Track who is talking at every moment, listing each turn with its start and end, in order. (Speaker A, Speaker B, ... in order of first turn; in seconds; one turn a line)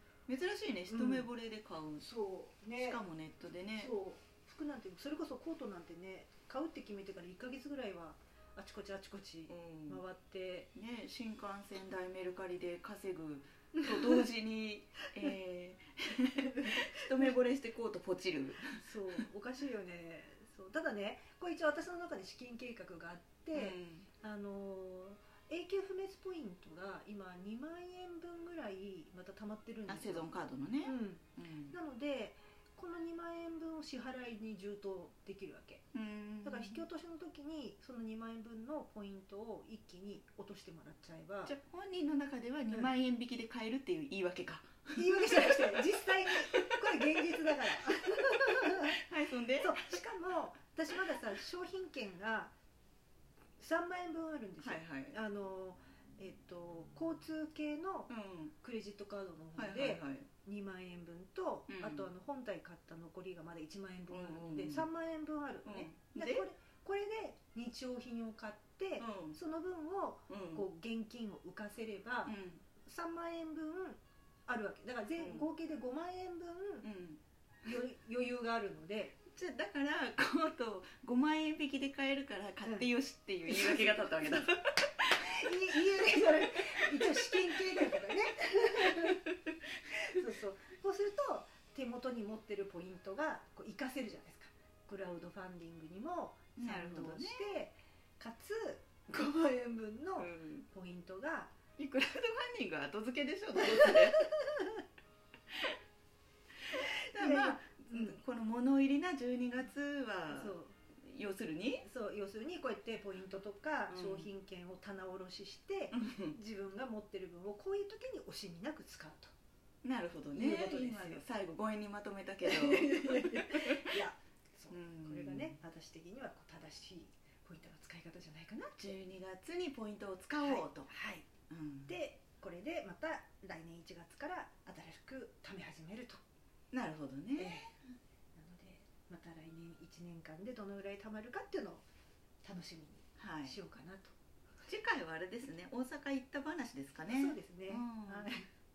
Speaker A: 0.3-2.1
Speaker B: 0.9-1.3
Speaker B: 2.0-3.0
Speaker A: 2.8-3.9
Speaker B: 3.8-10.7
Speaker A: 9.5-10.0
Speaker A: 10.8-18.8
Speaker B: 16.6-17.0
Speaker B: 18.8-35.9
Speaker A: 23.5-24.1
Speaker A: 29.9-31.8
Speaker A: 35.9-36.8
Speaker B: 36.4-41.5
Speaker A: 41.5-49.8
Speaker B: 45.0-49.0
Speaker B: 49.5-52.5
Speaker B: 53.6-76.9
Speaker A: 54.6-55.1
Speaker A: 58.1-58.5
Speaker A: 59.5-60.3
Speaker A: 61.7-62.1
Speaker A: 64.1-64.9
Speaker A: 65.7-66.5
Speaker A: 69.0-69.4
Speaker A: 70.3-70.7
Speaker A: 72.2-72.6
Speaker A: 75.2-75.5
Speaker A: 76.8-77.2
Speaker B: 77.6-79.2
Speaker A: 79.3-88.0
Speaker B: 83.5-84.5
Speaker B: 85.1-89.3
Speaker A: 88.9-89.2
Speaker B: 89.9-101.6
Speaker A: 96.6-97.4
Speaker A: 100.2-100.7
Speaker A: 101.8-104.3
Speaker A: 106.7-111.8
Speaker B: 107.2-108.2
Speaker B: 110.3-110.8
Speaker B: 111.8-119.3
Speaker A: 113.9-114.3
Speaker A: 115.9-116.4
Speaker A: 119.8-124.0
Speaker B: 120.3-121.2
Speaker B: 122.4-128.9
Speaker A: 124.7-125.5
Speaker A: 128.8-130.9
Speaker B: 130.4-131.3
Speaker A: 131.5-132.0
Speaker B: 131.9-136.2
Speaker A: 136.7-137.7
Speaker B: 137.4-137.8
Speaker B: 138.4-141.8
Speaker B: 142.4-144.2
Speaker A: 143.2-143.6
Speaker A: 144.6-148.3
Speaker B: 147.1-148.5